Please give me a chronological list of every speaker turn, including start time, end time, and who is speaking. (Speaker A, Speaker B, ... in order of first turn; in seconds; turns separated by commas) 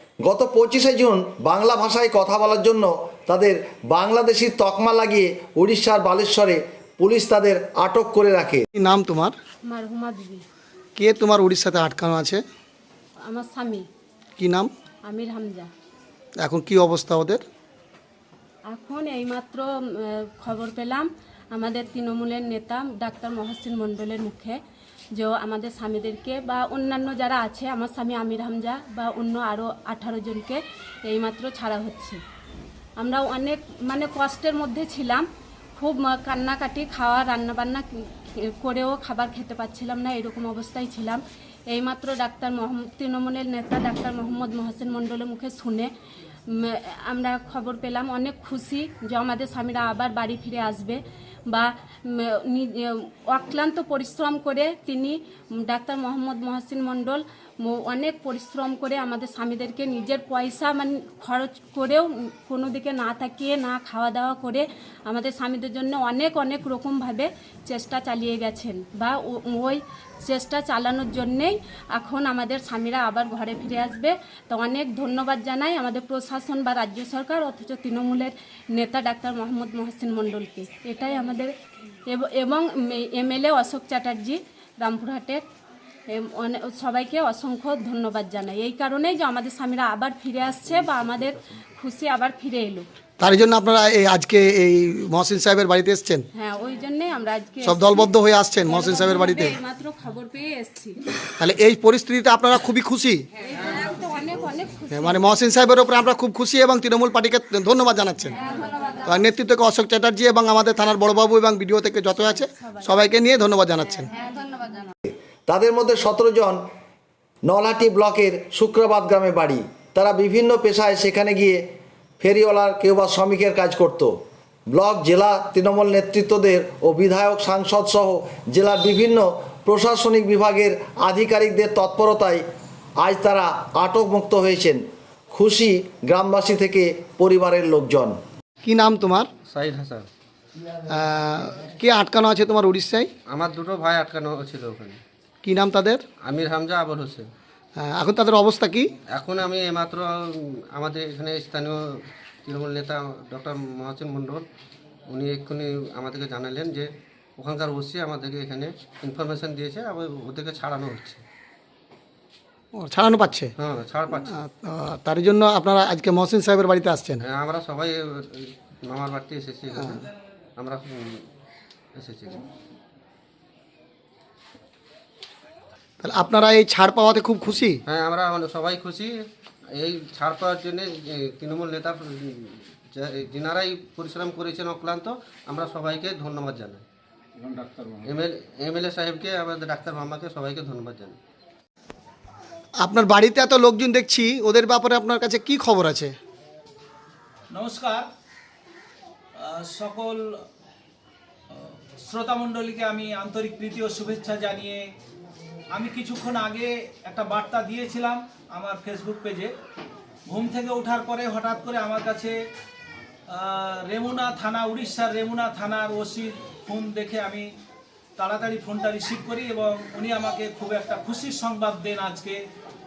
Speaker A: 0.2-8.7, Speaker B: 8.8-9.4, Speaker C: 9.7-10.4, Speaker B: 11.0-12.4, Speaker C: 13.2-13.9, Speaker B: 14.4-14.7, Speaker C: 15.0-15.7, Speaker B: 16.4-17.4, Speaker C: 18.7-24.6, Speaker C: 25.1-32.2, Speaker C: 33.0-45.9, Speaker C: 46.5-81.5, Speaker C: 82.1-85.5, Speaker C: 86.1-92.9, Speaker B: 93.2-96.3, Speaker C: 96.3-98.1, Speaker B: 97.6-99.6, Speaker C: 98.6-101.0, Speaker B: 101.4-103.2, Speaker C: 103.4-105.4, Speaker B: 104.9-108.4, Speaker C: 108.4-109.1, Speaker B: 109.0-114.1, Speaker C: 112.3-112.9, Speaker C: 114.2-114.8, Speaker A: 115.5-116.6, Speaker A: 117.4-121.6, Speaker A: 122.2-124.1, Speaker A: 124.7-132.4, Speaker A: 133.0-138.2, Speaker B: 138.6-139.3, Speaker D: 139.5-140.1, Speaker B: 140.9-143.1, Speaker D: 143.3-145.0, Speaker B: 145.4-146.0, Speaker D: 146.2-147.3, Speaker B: 147.8-148.9, Speaker D: 149.1-150.1, Speaker D: 150.7-151.8, Speaker D: 152.4-154.5, Speaker D: 155.1-161.2, Speaker B: 162.7-163.6, Speaker D: 163.6-164.4, Speaker B: 164.2-167.2, Speaker D: 167.2-170.1, Speaker B: 169.8-170.0, Speaker D: 170.6-171.2, Speaker D: 172.0-172.4, Speaker B: 176.0-177.8, Speaker D: 177.9-186.8, Speaker D: 188.0-191.2, Speaker B: 192.8-196.2, Speaker E: 197.5-198.1, Speaker E: 199.4-200.4, Speaker E: 201.5-204.8, Speaker E: 205.7-209.5, Speaker E: 210.3-212.3, Speaker E: 213.3-217.5, Speaker E: 218.2-222.4